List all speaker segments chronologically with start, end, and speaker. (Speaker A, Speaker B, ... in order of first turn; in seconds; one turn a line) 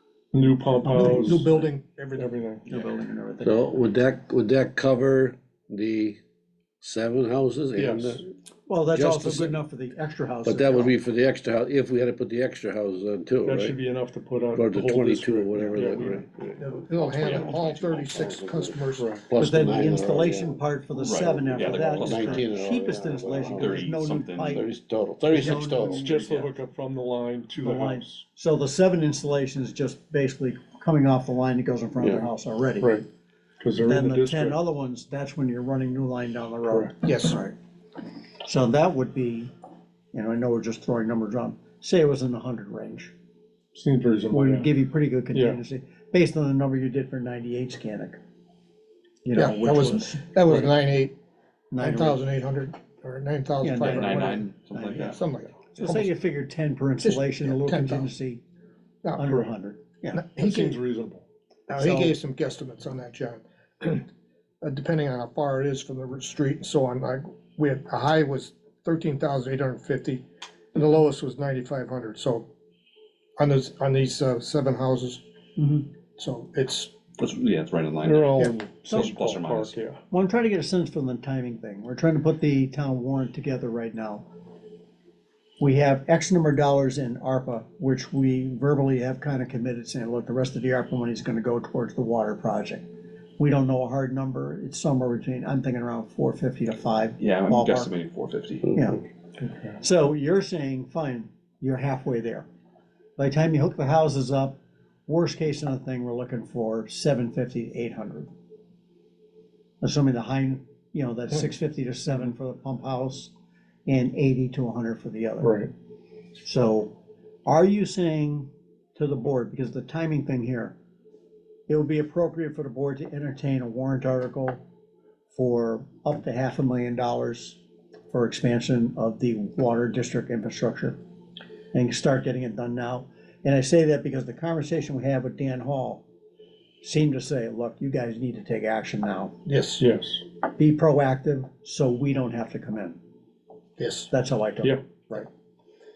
Speaker A: 0.3-1.5
Speaker B: 0.8-1.7
Speaker C: 0.9-2.4
Speaker A: 2.2-2.6
Speaker B: 2.7-3.7
Speaker D: 3.4-6.2
Speaker D: 6.8-8.3
Speaker A: 7.8-8.2
Speaker B: 8.7-10.9
Speaker D: 8.9-9.6
Speaker D: 10.4-13.8
Speaker A: 13.4-16.6
Speaker D: 14.5-16.3
Speaker B: 15.6-15.9
Speaker C: 16.6-19.1
Speaker E: 17.0-18.4
Speaker D: 18.1-20.6
Speaker A: 19.0-19.3
Speaker B: 19.3-24.7
Speaker E: 20.9-22.5
Speaker D: 21.5-23.9
Speaker E: 23.4-24.6
Speaker D: 24.5-26.0
Speaker B: 25.3-26.2
Speaker A: 25.9-28.2
Speaker E: 26.1-26.4
Speaker B: 27.6-33.0
Speaker D: 32.0-32.2
Speaker A: 32.8-33.0
Speaker A: 33.6-34.6
Speaker B: 33.8-37.5
Speaker A: 36.7-36.9
Speaker C: 37.0-37.4
Speaker B: 38.4-39.5
Speaker B: 40.1-43.1
Speaker A: 43.7-44.7
Speaker B: 44.3-48.2
Speaker A: 45.3-45.6
Speaker B: 49.2-50.7
Speaker C: 49.3-51.1
Speaker B: 51.7-52.3
Speaker C: 51.8-54.4
Speaker B: 53.6-55.2
Speaker E: 53.8-55.2
Speaker C: 55.1-56.0
Speaker E: 55.7-56.0
Speaker B: 55.8-58.4
Speaker C: 57.0-58.1
Speaker B: 59.1-60.4
Speaker A: 59.2-59.5
Speaker C: 60.1-60.8
Speaker A: 60.4-61.2
Speaker B: 61.7-62.2
Speaker C: 61.7-64.1
Speaker C: 64.6-72.5
Speaker C: 73.4-75.2
Speaker B: 75.6-75.9
Speaker C: 76.2-76.9
Speaker E: 77.2-79.7
Speaker A: 78.0-80.0
Speaker B: 78.9-79.2
Speaker B: 80.1-84.2
Speaker B: 85.6-92.9
Speaker B: 93.4-97.9
Speaker E: 97.2-98.7
Speaker B: 98.7-99.0
Speaker A: 99.4-99.8
Speaker B: 99.8-102.5
Speaker B: 103.2-108.3
Speaker B: 109.8-113.3
Speaker B: 113.8-115.7
Speaker A: 115.4-115.7
Speaker B: 116.4-116.9
Speaker B: 117.4-120.8
Speaker B: 121.7-124.6
Speaker B: 125.3-127.6
Speaker B: 128.1-131.0
Speaker B: 131.7-136.0
Speaker B: 136.8-139.4
Speaker C: 139.4-139.8
Speaker A: 139.8-140.2
Speaker B: 140.6-143.0
Speaker C: 143.8-144.1
Speaker B: 144.1-145.3